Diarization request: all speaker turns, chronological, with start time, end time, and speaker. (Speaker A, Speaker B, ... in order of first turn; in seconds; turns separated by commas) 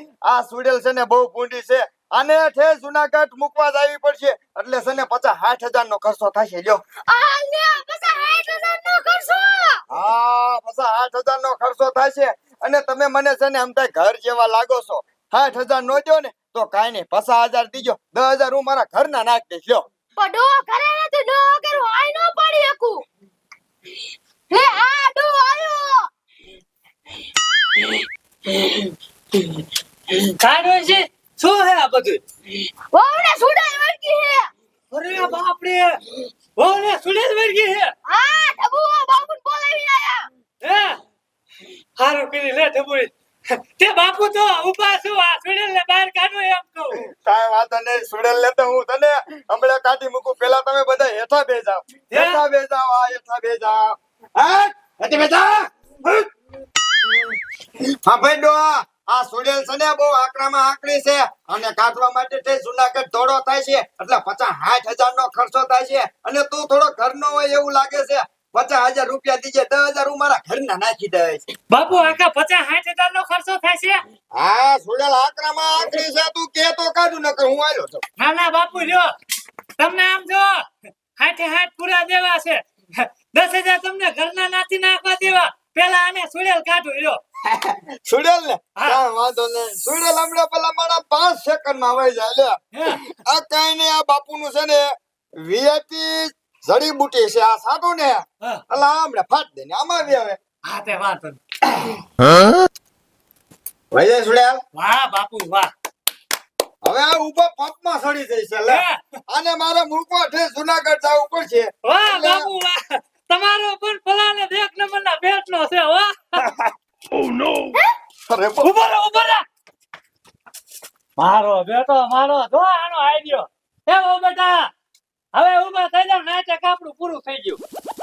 Speaker A: 0.3-6.8, Speaker B: 7.1-9.8, Speaker A: 9.9-19.9, Speaker B: 20.2-23.0, Speaker B: 24.5-26.1, Speaker C: 30.2-32.2, Speaker B: 32.9-34.5, Speaker C: 34.9-36.0, Speaker C: 36.6-37.9, Speaker B: 38.1-40.2, Speaker C: 40.6-41.0, Speaker C: 42.0-43.1, Speaker C: 43.8-47.0, Speaker A: 47.0-56.2, Speaker C: 52.1-52.4, Speaker A: 58.0-71.4, Speaker C: 71.7-74.0, Speaker A: 74.3-78.0, Speaker C: 78.2-79.1, Speaker C: 79.8-80.6, Speaker C: 81.2-87.2, Speaker A: 87.4-100.4, Speaker C: 92.8-93.2, Speaker C: 100.7-101.4, Speaker A: 103.9-104.6, Speaker C: 104.8-105.7, Speaker A: 106.8-112.5, Speaker C: 108.7-109.0, Speaker C: 111.9-116.4, Speaker A: 118.3-118.7, Speaker C: 118.6-119.4, Speaker C: 121.2-124.7, Speaker C: 125.3-127.6